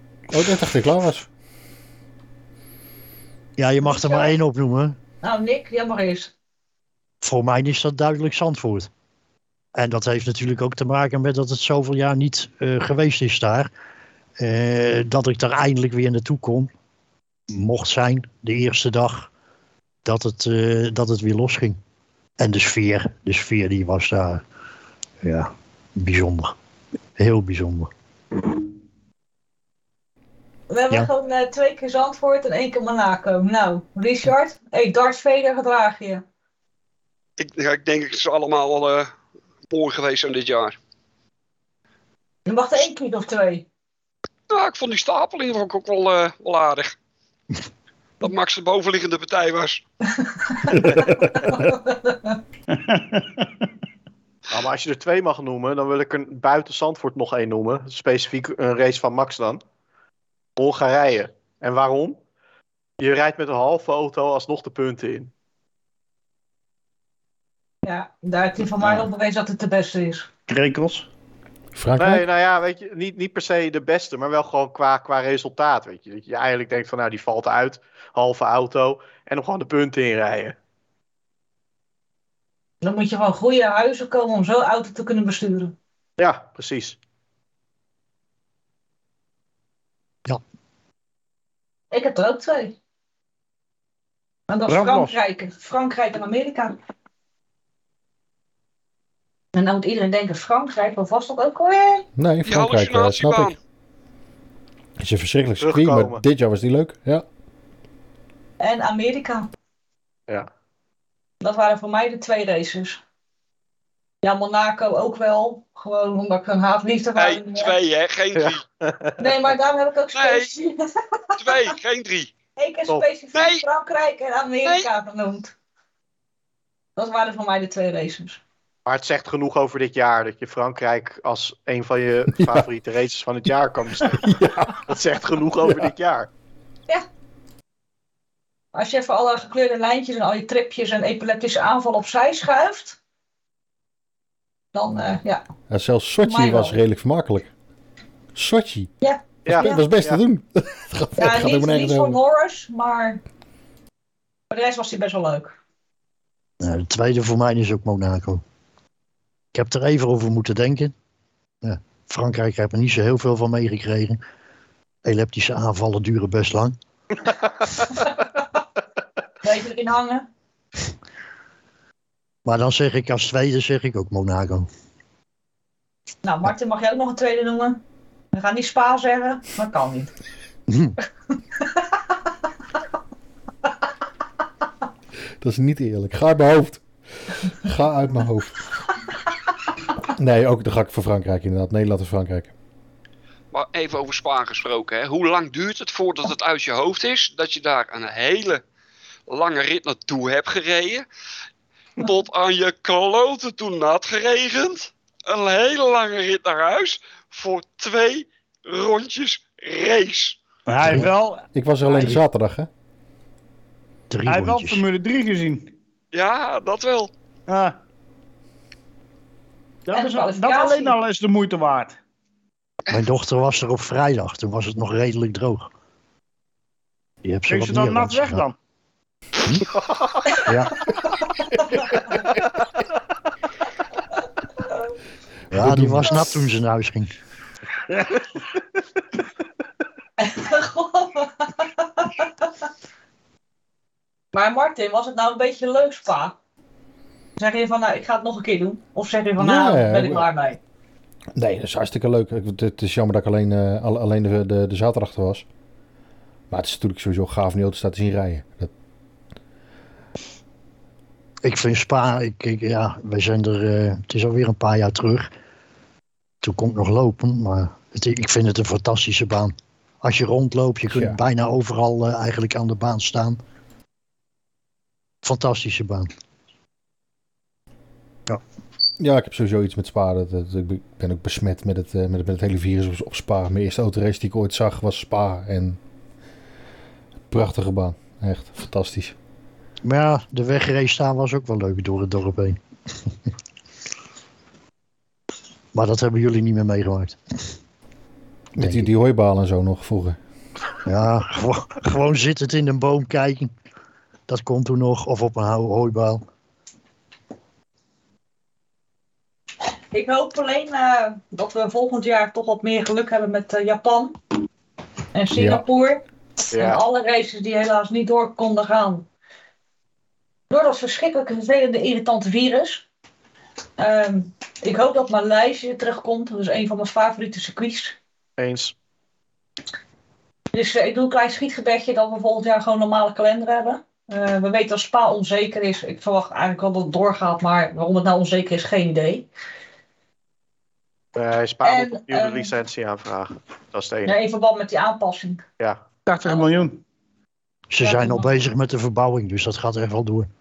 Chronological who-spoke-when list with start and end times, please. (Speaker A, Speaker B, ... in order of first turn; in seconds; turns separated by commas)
Speaker A: 0.3-1.3, Speaker B: 3.6-5.0, Speaker C: 3.8-4.4, Speaker C: 5.2-6.3, Speaker B: 7.2-8.9, Speaker B: 9.7-13.7, Speaker B: 14.4-16.7, Speaker B: 17.5-19.3, Speaker B: 20.1-21.8, Speaker B: 22.4-24.4, Speaker B: 25.2-26.5, Speaker B: 27.2-27.9, Speaker C: 30.7-36.2, Speaker D: 37.4-39.1, Speaker D: 39.7-40.8, Speaker C: 42.5-43.7, Speaker D: 44.5-47.0, Speaker D: 48.2-49.8, Speaker C: 50.2-52.4, Speaker A: 50.9-51.6, Speaker E: 52.7-53.5, Speaker F: 54.5-59.6, Speaker F: 60.6-62.2, Speaker F: 63.0-65.3, Speaker C: 67.8-70.3, Speaker E: 70.5-71.1, Speaker A: 71.7-72.3, Speaker F: 72.0-80.5, Speaker C: 82.8-85.7, Speaker F: 86.2-87.0, Speaker C: 91.9-92.8, Speaker C: 94.5-96.7, Speaker E: 94.7-95.2, Speaker C: 99.5-102.0, Speaker A: 102.2-103.5, Speaker D: 102.5-103.6, Speaker A: 105.0-107.2, Speaker F: 105.6-106.2, Speaker C: 108.6-109.5, Speaker C: 111.4-113.0, Speaker C: 114.2-117.7, Speaker D: 117.2-118.6, Speaker F: 118.3-119.2, Speaker C: 119.2-121.7, Speaker D: 120.1-120.5, Speaker D: 121.4-122.3, Speaker C: 122.6-125.5, Speaker D: 123.3-123.6, Speaker C: 127.0-128.4, Speaker F: 128.9-134.3, Speaker A: 132.4-132.7, Speaker A: 134.0-134.9, Speaker F: 134.9-136.3, Speaker C: 138.7-143.0, Speaker C: 144.7-145.4, Speaker A: 145.7-147.5, Speaker C: 146.2-146.8, Speaker A: 148.3-148.9, Speaker C: 149.0-149.8, Speaker F: 149.4-150.2, Speaker A: 149.5-152.2, Speaker C: 151.2-153.2, Speaker C: 154.5-155.6, Speaker B: 156.6-158.4, Speaker B: 159.5-160.9, Speaker B: 161.6-164.2, Speaker B: 165.0-166.8, Speaker C: 169.4-170.3, Speaker B: 172.4-174.7, Speaker C: 176.2-177.8, Speaker C: 178.3-180.1, Speaker B: 180.7-180.9, Speaker A: 185.4-186.8, Speaker A: 187.5-188.6, Speaker A: 190.2-192.5, Speaker D: 193.5-198.6, Speaker D: 199.3-201.1, Speaker D: 202.0-210.4, Speaker E: 210.7-212.1, Speaker A: 210.9-212.7, Speaker B: 214.1-214.8, Speaker E: 214.3-215.7, Speaker D: 216.1-217.1, Speaker E: 217.5-217.8, Speaker E: 219.9-222.0, Speaker C: 219.9-221.0, Speaker B: 222.9-225.7, Speaker B: 227.2-228.5, Speaker E: 227.5-228.6, Speaker F: 229.9-230.4, Speaker B: 230.4-230.7, Speaker C: 231.4-232.1, Speaker B: 235.5-237.1, Speaker A: 235.5-236.1, Speaker C: 240.2-242.3, Speaker C: 244.3-246.3, Speaker C: 247.4-250.6, Speaker A: 249.4-250.3, Speaker A: 251.4-255.4, Speaker A: 256.5-258.7, Speaker B: 261.4-265.3, Speaker B: 266.4-273.4, Speaker A: 270.9-271.2, Speaker B: 275.2-276.1, Speaker A: 279.0-285.8, Speaker A: 287.3-289.1, Speaker B: 289.8-292.6, Speaker B: 295.7-297.5, Speaker A: 298.6-300.2, Speaker B: 298.6-298.9, Speaker B: 300.9-303.5, Speaker B: 304.3-306.2, Speaker C: 309.9-314.2, Speaker C: 315.1-319.1, Speaker A: 315.3-315.6, Speaker F: 316.5-316.8, Speaker C: 320.5-322.9, Speaker C: 323.8-328.0, Speaker F: 328.4-328.7, Speaker C: 330.5-339.3, Speaker F: 341.1-344.1, Speaker C: 341.6-342.5, Speaker C: 344.1-345.4, Speaker E: 346.1-346.8, Speaker C: 346.3-346.6, Speaker B: 347.7-350.3, Speaker C: 347.8-348.3